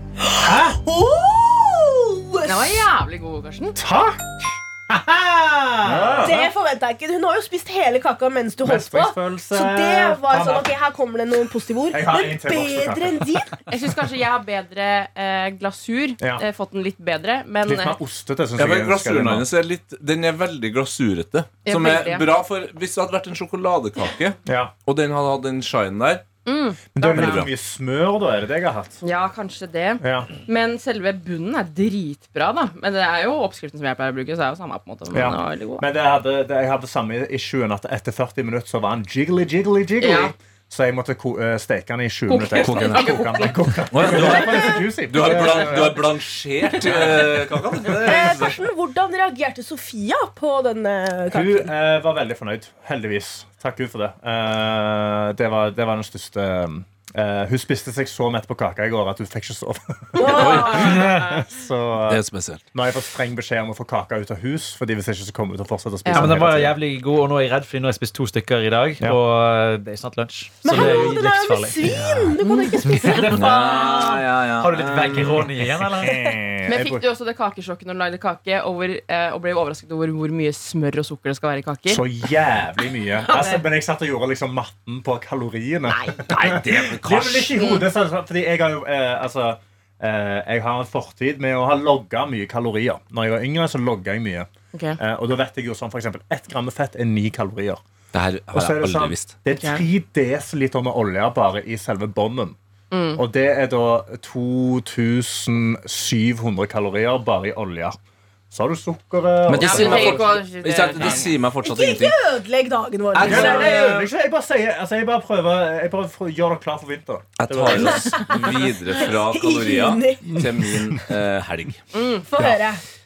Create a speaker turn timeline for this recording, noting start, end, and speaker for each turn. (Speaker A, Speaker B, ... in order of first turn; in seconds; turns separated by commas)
Speaker A: 0.2-2.9, Speaker B: 0.3-0.8, Speaker C: 2.4-3.8, Speaker B: 3.8-6.5, Speaker D: 5.8-6.4, Speaker A: 6.2-13.6, Speaker B: 8.6-10.7, Speaker B: 11.9-13.3, Speaker C: 13.7-18.0, Speaker B: 17.6-19.4, Speaker D: 18.6-26.2, Speaker C: 21.6-22.2, Speaker B: 24.4-24.7, Speaker C: 26.4-27.5, Speaker B: 26.9-29.0, Speaker D: 27.1-27.5, Speaker C: 29.0-35.8, Speaker B: 30.0-30.3, Speaker B: 35.1-46.1, Speaker C: 40.0-40.3, Speaker C: 42.3-44.5, Speaker D: 42.6-43.2, Speaker D: 43.9-48.7, Speaker B: 46.8-47.2, Speaker C: 46.9-47.1, Speaker A: 48.0-51.7, Speaker B: 51.3-62.2, Speaker A: 60.2-61.0, Speaker D: 60.2-61.1, Speaker E: 61.0-61.4, Speaker D: 62.1-62.6, Speaker B: 62.7-66.8, Speaker C: 66.0-66.3, Speaker E: 66.1-76.4, Speaker A: 70.6-73.4, Speaker D: 73.3-75.6, Speaker B: 76.0-77.0, Speaker C: 76.7-82.0, Speaker B: 81.9-97.8, Speaker C: 83.2-83.6, Speaker C: 85.9-86.3, Speaker D: 86.3-87.6, Speaker C: 87.6-87.8, Speaker C: 94.7-95.0, Speaker D: 98.1-99.3, Speaker B: 98.5-102.6, Speaker C: 99.5-99.8, Speaker C: 102.9-103.2, Speaker B: 103.2-108.0, Speaker B: 108.5-110.4, Speaker D: 109.5-112.2, Speaker C: 109.5-111.3, Speaker A: 111.6-113.8, Speaker D: 113.1-114.1, Speaker B: 113.2-118.4, Speaker D: 117.4-121.8, Speaker A: 117.7-120.7, Speaker C: 121.9-122.3, Speaker A: 122.3-122.8